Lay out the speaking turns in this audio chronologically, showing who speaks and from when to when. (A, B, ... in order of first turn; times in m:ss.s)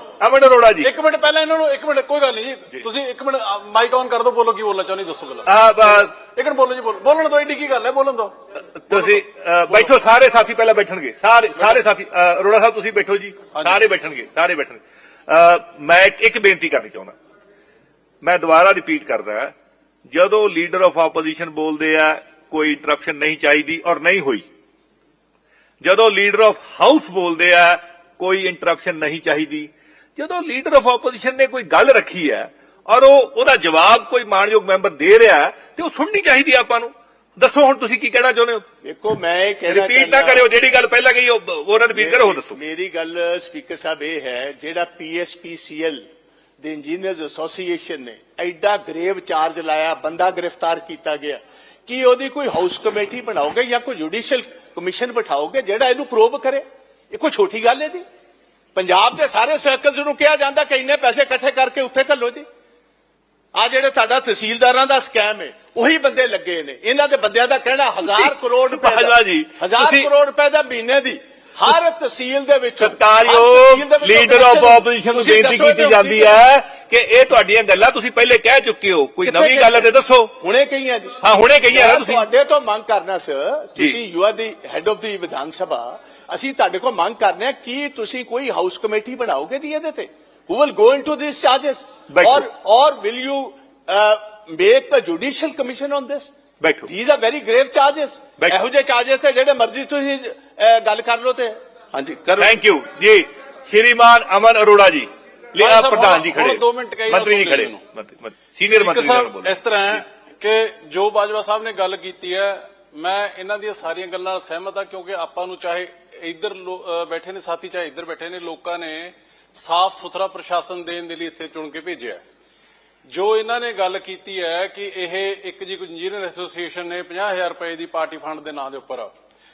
0:00.2-0:00.9 A
0:00.8-0:08.3 B
0:05.5-0:06.1 A
0:08.6-0:17.1 A
0:18.2-0:19.5 A
0:20.1-0:24.5 A
0:25.8-0:38.6 A
0:38.8-0:40.4 C
0:39.7-0:42.6 A
0:41.9-0:46.0 C
0:46.6-0:58.0 C
0:58.8-1:02.4 C
1:03.5-1:16.4 C
1:08.0-1:10.1 A
1:12.8-1:20.4 A
1:19.2-1:21.2 C
1:21.2-1:22.3 A
1:21.7-1:36.3 C
1:32.1-1:32.5 A
1:36.6-1:36.9 A
1:36.9-1:42.5 C
1:42.4-1:49.6 A
1:45.6-1:47.8 B
1:48.7-2:02.2 B
2:03.1-2:09.1 B